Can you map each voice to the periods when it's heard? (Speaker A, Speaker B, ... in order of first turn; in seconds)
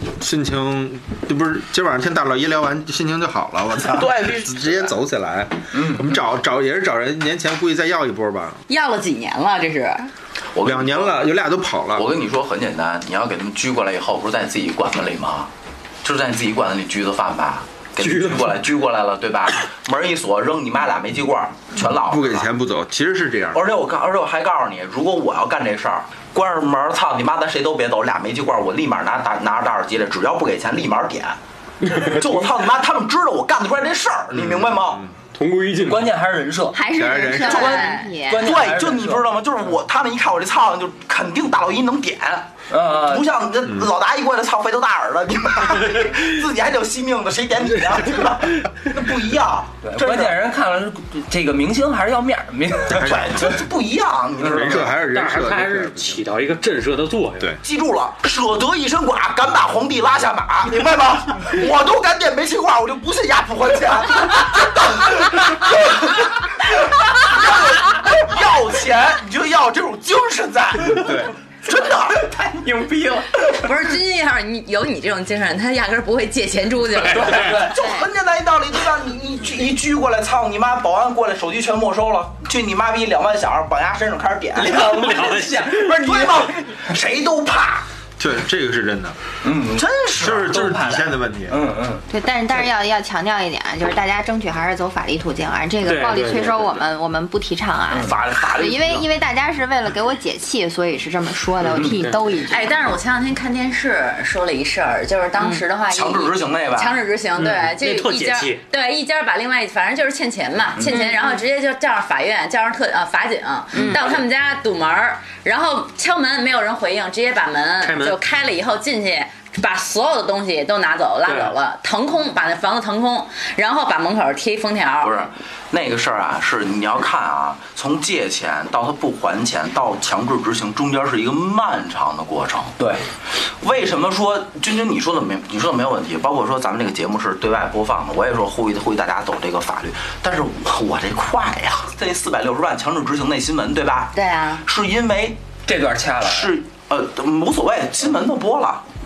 Speaker A: 0.2-8.6, 10.6-12.1, 21.9-23.6, 34.3-35.1, 36.9-37.7, 52.9-53.6, 54.6-56.2, 71.0-71.3, 88.2-89.2, 90.2-91.6
Speaker B: 3.9-4.9, 10.5-11.2, 11.9-15.5, 16.0-22.5, 23.5-31.4, 31.9-35.0, 37.5-50.3, 53.0-55.0, 57.6-72.4, 77.5-85.2, 85.7-87.8, 89.8-90.6, 98.0-99.1, 105.9-107.0, 110.8-111.1, 125.0-145.4, 146.2-148.8
Speaker C: 5.7-6.2, 35.8-36.8, 37.5-39.2, 42.7-43.3, 49.8-53.2, 54.4-54.8, 72.2-73.6, 77.1-77.9, 84.6-86.4, 89.4-92.1, 97.9-98.1, 101.7-102.0, 145.7-146.5
Speaker D: 8.7-10.1, 37.7-38.1, 73.4-77.6, 102.5-125.2, 144.1-144.6
Speaker E: 18.0-18.6, 31.9-32.2, 35.3-36.0, 54.9-57.5, 77.0-77.6, 85.1-85.7, 95.8-96.6, 101.7-102.3, 107.4-108.6, 117.8-118.2, 121.2-121.5
Speaker F: 36.7-38.5, 92.1-102.8, 105.4-105.6, 113.7-114.1